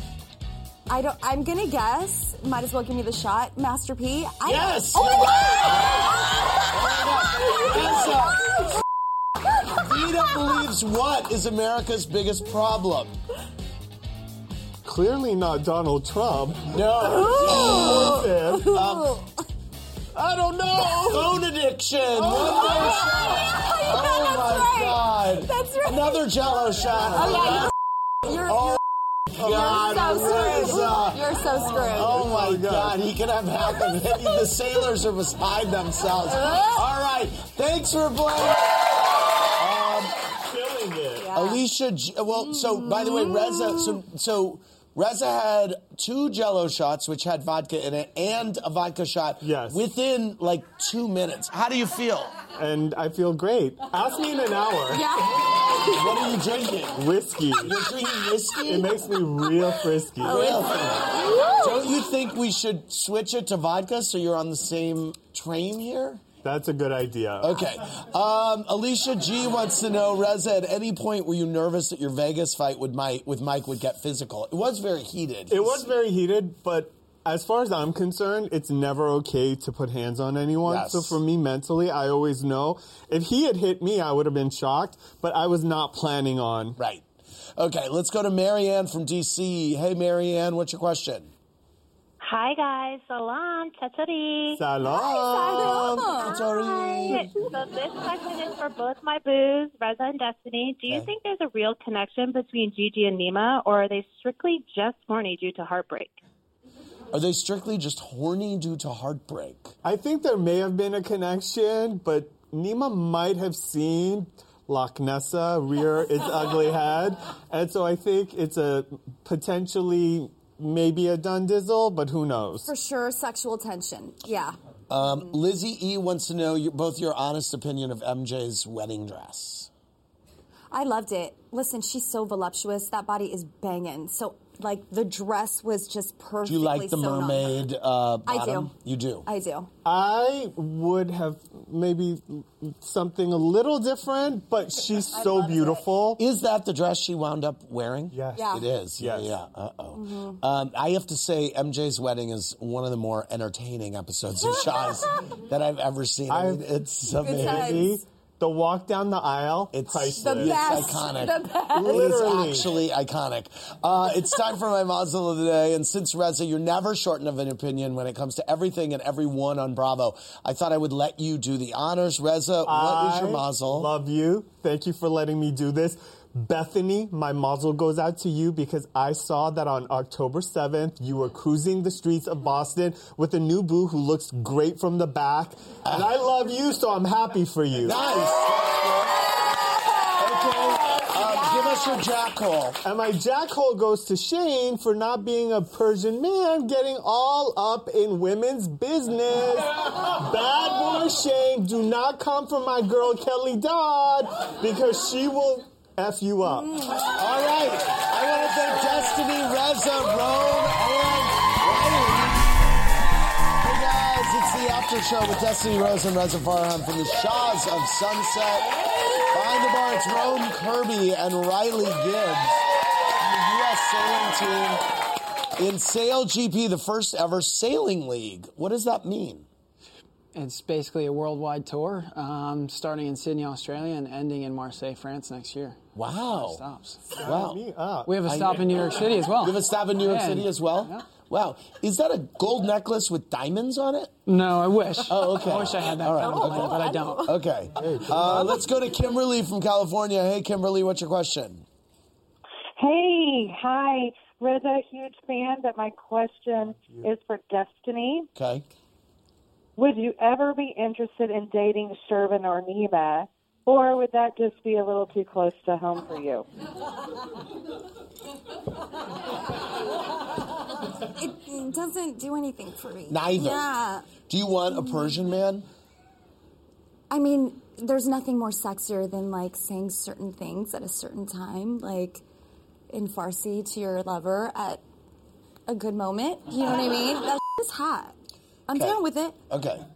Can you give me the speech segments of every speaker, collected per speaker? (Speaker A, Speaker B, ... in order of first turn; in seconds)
Speaker A: 0.9-8.7, 17.0-19.3, 22.3-26.3, 27.1-27.7, 28.2-28.8, 29.4-32.3, 36.3-36.8, 41.2-41.6, 42.7-44.0, 54.9-56.0, 60.2-62.0, 95.3-97.2, 122.7-125.3, 130.7-137.7, 138.2-138.7, 139.3-139.7, 145.1-145.9, 148.4-148.7, 149.9-150.4, 157.2-158.0, 160.2-162.3, 189.8-192.1, 206.7-207.0, 271.1-274.1, 277.1-282.2, 282.9-284.8, 285.7-288.2, 288.7-289.4
Speaker B: 4.4-8.5, 9.7-13.2, 16.7-19.2, 21.1-27.7, 28.5-28.8, 29.4-38.8, 39.6-40.2, 41.3-52.4, 55.9-57.0, 57.5-59.1, 60.2-66.2, 67.4-75.9, 80.7-81.2, 86.8-87.1, 87.6-91.3, 96.2-97.3, 107.1-109.7, 124.9-129.7, 136.4-139.3, 146.2-157.9, 159.7-173.9, 187.8-189.3, 190.1-192.8, 207.2-212.5, 213.6-222.7, 223.2-224.8, 225.6-229.5, 236.0-236.6, 237.2-237.6, 238.2-238.7, 239.4-244.1, 245.1-251.7, 258.4-258.6, 273.1-273.7, 274.3-275.7, 288.7-289.9
Speaker C: 14.8-18.8, 20.1-21.3, 26.9-27.6, 29.4-29.8, 32.0-33.1, 40.5-41.4, 49.4-49.8, 52.5-55.1, 56.9-57.7, 58.6-60.6, 66.4-67.6, 75.5-86.8, 94.6-96.1, 109.8-122.7, 139.8-146.2, 148.1-149.3, 156.3-156.7, 157.2-160.7, 161.7-162.7, 172.7-188.0, 192.8-206.8, 237.1-238.8, 247.8-248.7, 256.8-257.1
Speaker D: 92.2-106.2
Speaker E: 230.3-237.2, 238.1-241.1, 244.3-247.3
Speaker F: 252.8-258.3, 259.8-266.5